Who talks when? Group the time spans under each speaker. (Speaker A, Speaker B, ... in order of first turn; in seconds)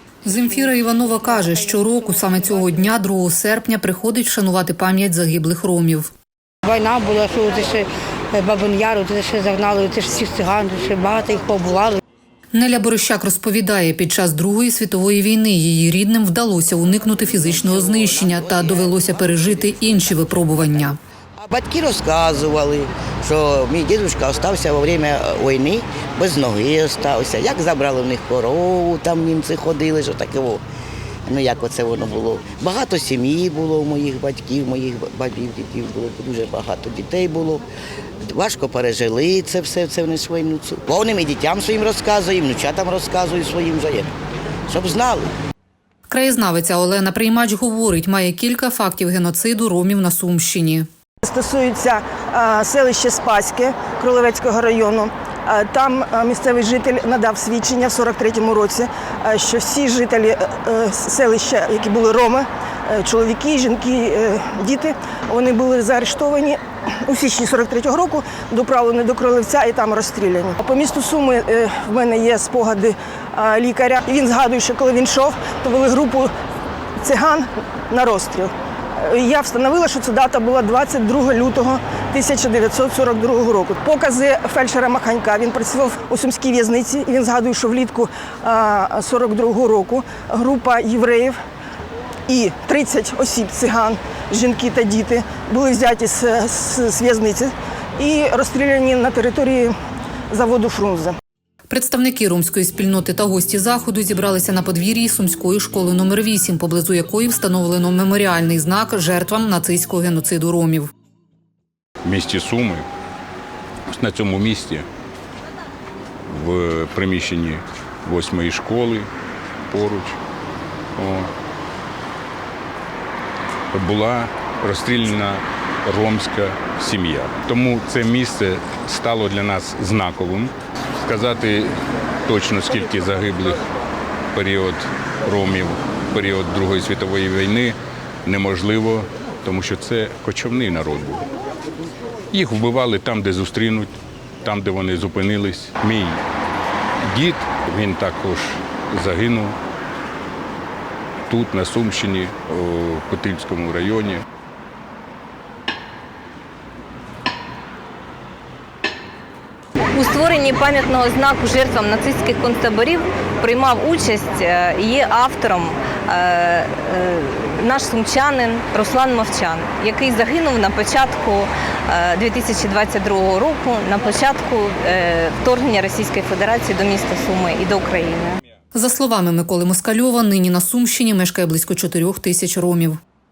Speaker A: 0.2-6.1, 12.5-21.0, 46.1-50.9, 101.7-110.9, 178.7-183.0
Speaker B: 0.8-2.9, 6.6-12.0
Speaker C: 17.3-30.6, 31.3-37.6, 38.3-44.1, 44.7-45.3
Speaker D: 51.2-76.3, 77.0-91.3, 92.3-99.7, 100.3-101.1
Speaker E: 112.0-112.8, 113.9-114.8, 116.3-119.1, 119.7-120.2, 121.0-121.3, 123.7-131.7, 132.2-133.6, 134.3-141.2, 142.3-146.2, 147.1-149.6, 151.3-154.2
Speaker F: 159.9-178.4